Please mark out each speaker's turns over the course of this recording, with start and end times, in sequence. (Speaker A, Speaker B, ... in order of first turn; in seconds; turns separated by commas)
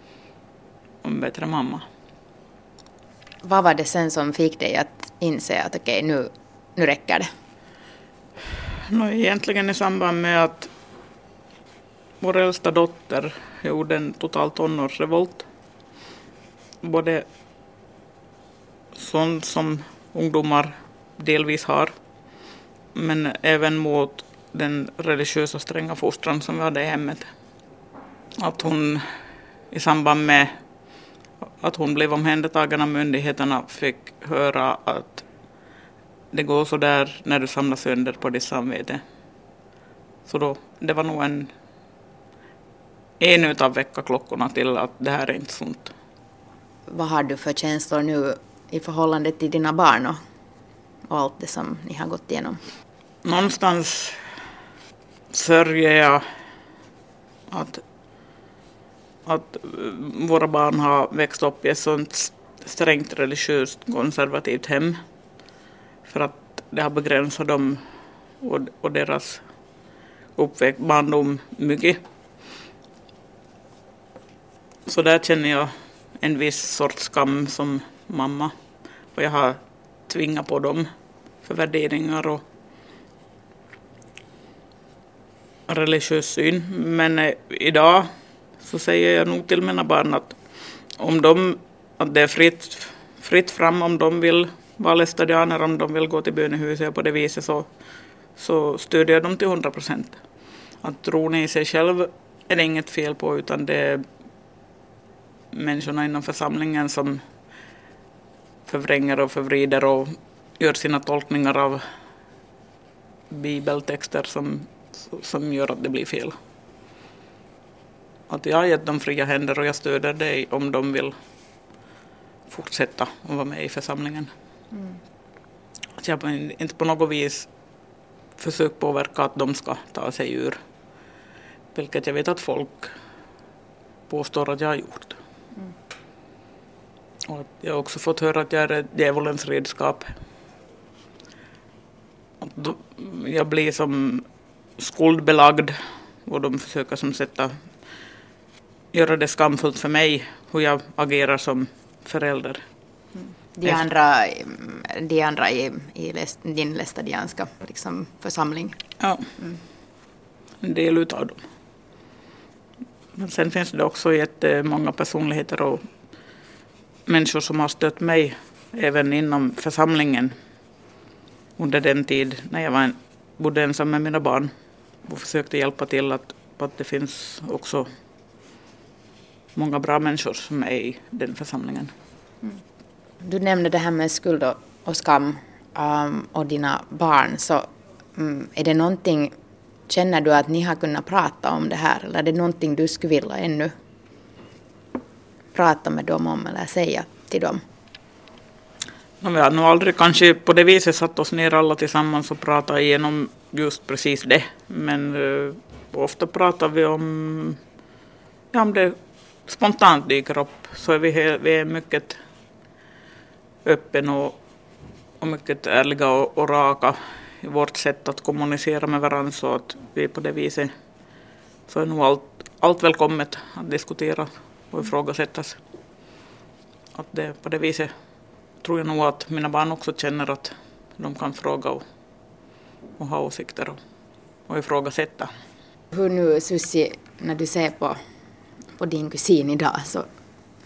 Speaker A: 1.0-1.8, Speaker B: 3.4-7.3, Speaker A: 8.9-10.7, Speaker A: 12.2-15.4, Speaker A: 16.8-17.2, Speaker A: 18.9-21.9, Speaker A: 22.9-27.3, Speaker A: 28.4-29.0, Speaker A: 29.7-30.5, Speaker A: 31.6-35.2, Speaker A: 36.3-39.0, Speaker A: 40.2-41.5, Speaker A: 43.2-45.9, Speaker B: 46.9-50.2, Speaker B: 51.1-52.6, Speaker A: 53.2-54.2, Speaker A: 55.3-56.2, Speaker A: 57.5-57.8, Speaker A: 59.2-65.0, Speaker A: 66.1-67.8, Speaker A: 68.4-69.4, Speaker A: 70.3-72.0, Speaker A: 74.8-78.5, Speaker A: 79.1-80.9, Speaker A: 81.4-82.4, Speaker A: 85.7-90.3, Speaker A: 91.0-97.7, Speaker A: 98.3-100.2, Speaker A: 100.8-104.0, Speaker A: 105.5-107.2, Speaker A: 108.7-111.8, Speaker A: 113.3-116.3, Speaker A: 118.3-121.1, Speaker A: 122.5-124.3, Speaker A: 126.0-127.5, Speaker A: 128.4-130.6, Speaker A: 131.7-132.9, Speaker A: 134.1-135.2, Speaker A: 137.2-140.1, Speaker A: 142.4-144.2, Speaker A: 144.8-145.7, Speaker A: 146.2-147.5, Speaker A: 148.9-152.6, Speaker B: 153.2-158.8, Speaker A: 159.0-159.2, Speaker A: 160.6-161.4, Speaker A: 163.2-165.8, Speaker A: 167.1-170.3, Speaker A: 171.6-174.5, Speaker A: 175.0-177.9, Speaker A: 179.5-181.9, Speaker B: 183.2-189.3, Speaker B: 189.9-193.7, Speaker B: 195.5-197.6, Speaker A: 199.2-207.6, Speaker A: 208.5-212.2, Speaker A: 213.6-214.3, Speaker A: 215.2-220.7, Speaker A: 221.7-225.6, Speaker A: 226.9-227.9, Speaker A: 228.6-231.8, Speaker A: 233.0-233.8, Speaker A: 234.5-235.3, Speaker B: 235.9-238.0, Speaker B: 238.8-240.1